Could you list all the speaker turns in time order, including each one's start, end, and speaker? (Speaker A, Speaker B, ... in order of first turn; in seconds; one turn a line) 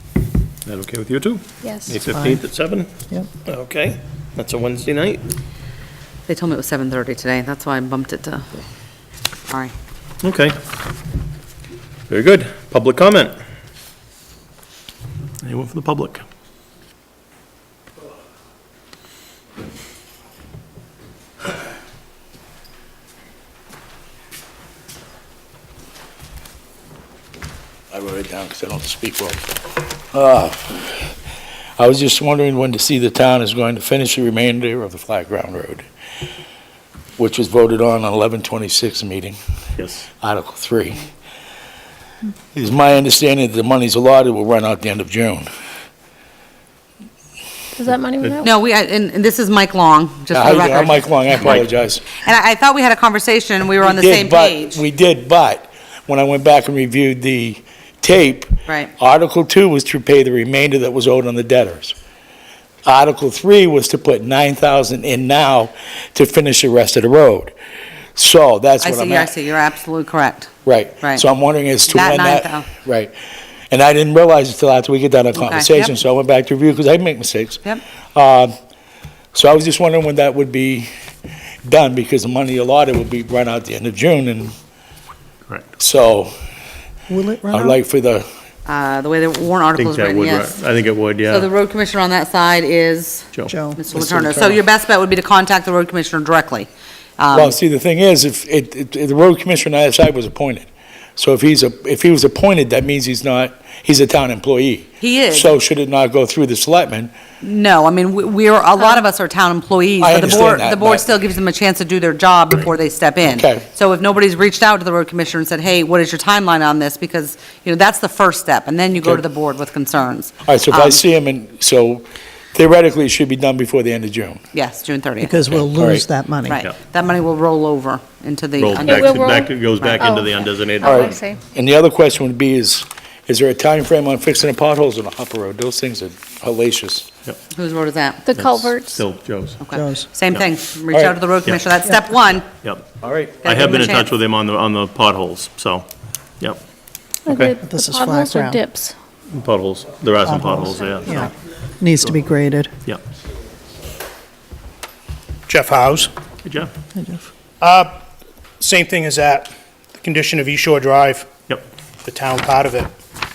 Speaker A: 0.7-5.2
Speaker B: 1.6-2.0
Speaker C: 2.1-2.4
Speaker D: 6.3-8.5
Speaker A: 10.2-10.6
Speaker A: 12.1-13.4
Speaker A: 15.4-16.2
Speaker E: 27.9-29.5
Speaker E: 30.1-31.1
Speaker E: 31.8-35.9
Speaker E: 37.2-39.4
Speaker A: 39.8-40.0
Speaker E: 40.2-41.1
Speaker E: 42.5-45.5
Speaker B: 47.7-48.5
Speaker D: 48.4-54.8
Speaker E: 50.3-52.0
Speaker E: 53.8-61.9
Speaker D: 58.7-58.9
Speaker E: 62.8-67.5
Speaker E: 68.2-69.3
Speaker D: 68.8-70.5
Speaker E: 70.7-73.1
Speaker D: 71.0-71.2
Speaker D: 71.9-72.7
Speaker E: 73.7-77.6
Speaker D: 75.3-75.9
Speaker E: 78.1-78.5
Speaker E: 79.3-80.9
Speaker E: 81.6-84.5
Speaker E: 85.8-86.3
Speaker C: 87.1-87.8
Speaker E: 87.5-88.2
Speaker D: 88.6-90.5
Speaker A: 89.8-91.5
Speaker D: 91.3-97.6
Speaker C: 93.5-93.8
Speaker E: 93.9-94.6
Speaker E: 97.3-107.1
Speaker D: 105.0-105.5
Speaker D: 107.4-121.0
Speaker E: 110.0-111.1
Speaker E: 113.2-113.6
Speaker E: 120.4-124.4
Speaker D: 124.5-125.4
Speaker C: 125.2-126.6
Speaker E: 125.6-126.0
Speaker D: 126.5-130.3
Speaker A: 128.6-131.2
Speaker B: 128.8-131.4
Speaker E: 130.8-137.1
Speaker D: 137.5-138.2
Speaker B: 138.2-139.0
Speaker A: 138.3-139.6
Speaker D: 139.6-142.5
Speaker C: 139.7-140.1
Speaker E: 140.9-141.2
Speaker A: 142.5-145.8
Speaker E: 143.0-143.3
Speaker D: 143.4-144.1
Speaker B: 147.2-148.9
Speaker A: 147.3-147.5
Speaker C: 147.6-148.6
Speaker A: 149.3-151.3
Speaker C: 150.2-152.7
Speaker F: 155.5-156.1
Speaker A: 156.4-156.7
Speaker C: 156.9-157.2
Speaker F: 157.6-157.9
Speaker F: 158.6-161.3
Speaker F: 162.0-162.9